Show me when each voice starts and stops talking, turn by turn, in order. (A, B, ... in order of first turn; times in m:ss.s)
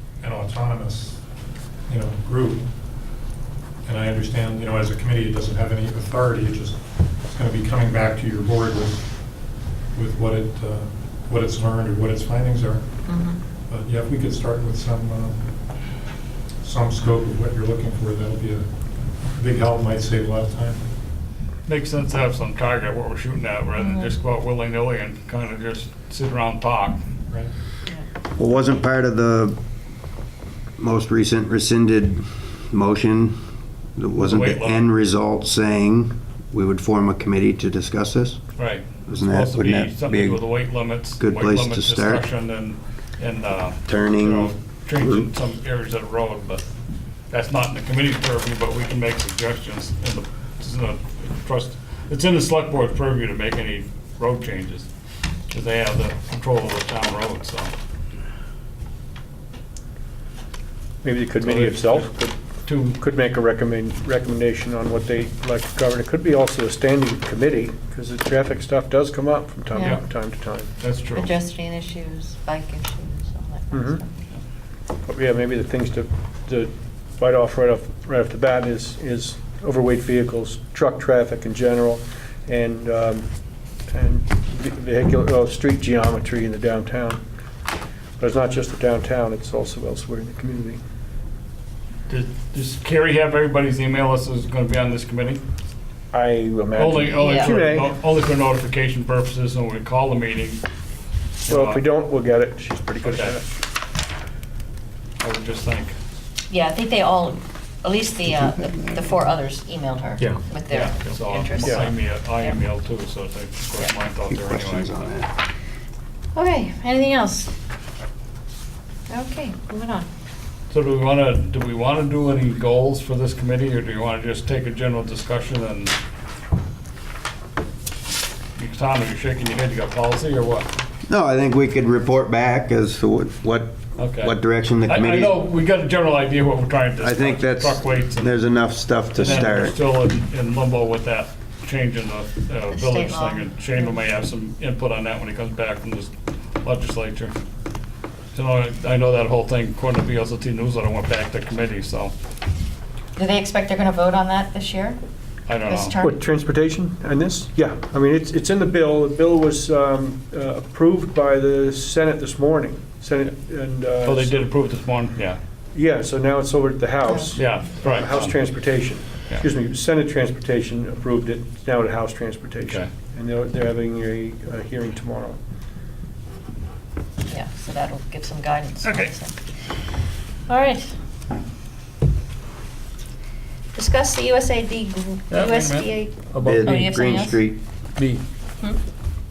0:00.2-0:01.2 A
0:01.9-0:02.7 A
0:03.9-0:09.2 A
0:09.9-0:12.9 A
0:13.1-0:13.4 B
0:13.7-0:15.5 A
0:16.6-0:18.7 A
0:19.3-0:20.8 A
0:21.7-0:27.0 C
0:23.8-0:24.1 B
0:28.4-0:29.6 D
0:30.8-0:38.4 D
0:34.2-0:34.8 C
0:38.6-0:46.6 C
0:39.0-0:40.5 D
0:41.2-0:42.3 D
0:43.9-0:45.3 D
0:47.3-0:54.9 C
0:55.5-0:57.7 C
1:01.0-1:10.7 E
1:01.4-1:02.1 C
1:02.7-1:02.9 C
1:10.8-1:11.3 C
1:11.2-1:14.2 B
1:13.7-1:14.0 E
1:15.1-1:23.3 E
1:23.9-1:27.2 E
1:28.2-1:30.8 E
1:32.1-1:35.4 C
1:36.1-1:37.9 E
1:36.8-1:40.6 C
1:37.1-1:37.6 B
1:41.4-1:41.8 C
1:41.5-1:43.4 E
1:43.0-1:43.4 C
1:45.2-1:46.0 C
1:46.5-1:52.6 B
1:50.3-1:55.2 C
1:51.6-1:51.9 E
1:54.3-1:55.3 D
1:56.3-1:57.5 B
1:59.1-2:00.1 B
2:00.7-2:05.9 C
2:08.6-2:10.7 C
2:11.1-2:15.3 D
2:14.0-2:18.4 C
2:17.0-2:19.8 D
2:19.2-2:26.1 C
2:22.7-2:23.9 B
2:26.6-2:27.3 C
2:28.3-2:32.1 C
2:33.2-2:35.0 B
2:35.5-2:36.0 C
2:35.6-2:36.2 B
2:36.0-2:44.5 E
2:44.0-2:45.4 C
2:45.7-2:55.4 E
2:47.1-2:47.4 B
2:47.3-2:48.5 C
2:52.6-2:52.9 C
2:57.3-2:59.4 B
2:58.8-2:59.1 C
3:00.5-3:01.0 B
3:03.8-3:07.4 B
3:05.3-3:06.9 C
3:06.4-3:07.6 D
3:08.0-3:08.2 C